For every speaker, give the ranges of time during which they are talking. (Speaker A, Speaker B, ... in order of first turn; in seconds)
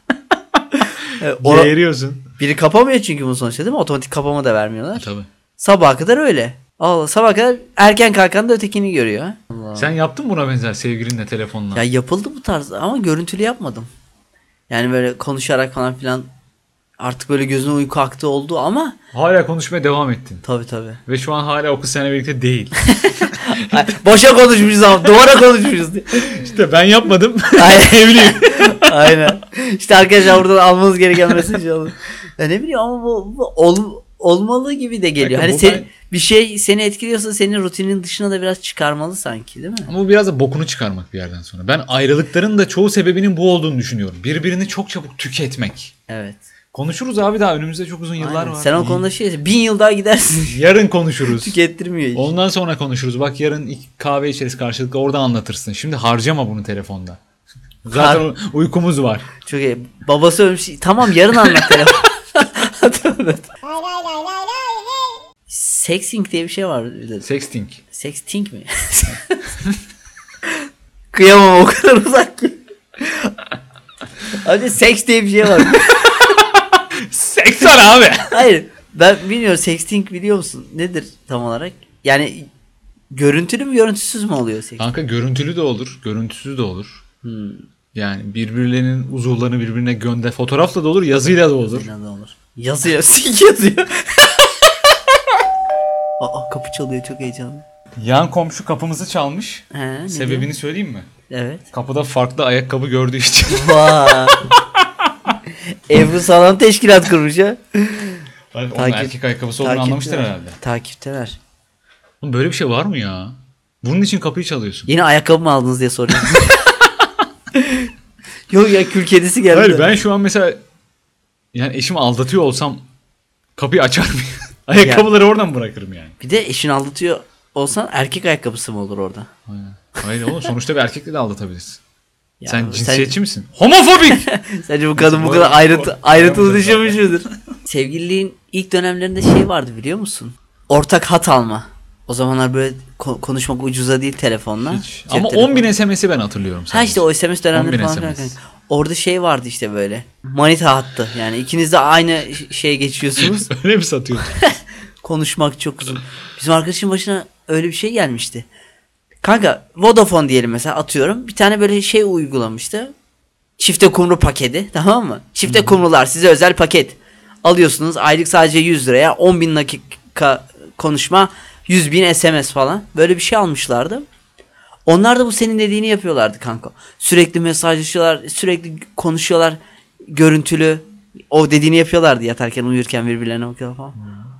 Speaker A: 1.2-1.7, 2.4-9.9, 11.7-13.9, 14.7-16.3, 17.0-18.9, 20.4-21.0, 22.8-26.3, 27.6-39.9, 46.1-46.5, 48.2-50.5, 51.3-52.3, 57.9-58.2, 59.4-63.5, 65.5-67.2, 67.9-69.4, 71.1-73.3, 74.3-76.4, 78.3-82.5, 83.1-84.8, 87.2-87.6, 91.7-94.5, 96.2-97.6, 99.7-100.5, 101.3-101.6, 103.5-104.4, 105.9-111.4, 114.9-116.7, 117.5-117.9, 118.5-119.9, 124.8-125.0, 126.2-129.3, 132.4-133.2, 134.1-145.7, 146.7-153.5, 154.3-158.4, 159.2-162.9, 163.6-174.1, 174.8-183.9
Speaker B: 1.4-2.2, 5.0-5.3, 9.7-11.8, 19.1-20.4, 21.1-23.5, 26.1-29.2, 35.2-35.9, 39.9-45.9, 46.7-49.0, 50.5-51.5, 52.1-57.2, 57.8-59.2, 67.2-67.8, 76.5-78.4, 84.8-87.0, 87.9-91.9, 98.0-101.1, 101.7-104.3, 108.5-110.6, 112.2-114.9, 119.5-120.6, 121.5-122.8, 123.5-126.1, 129.5-131.8, 132.4-134.3, 134.9-137.3, 144.7-148.3, 153.2-154.3, 165.5-165.8, 184.0-184.2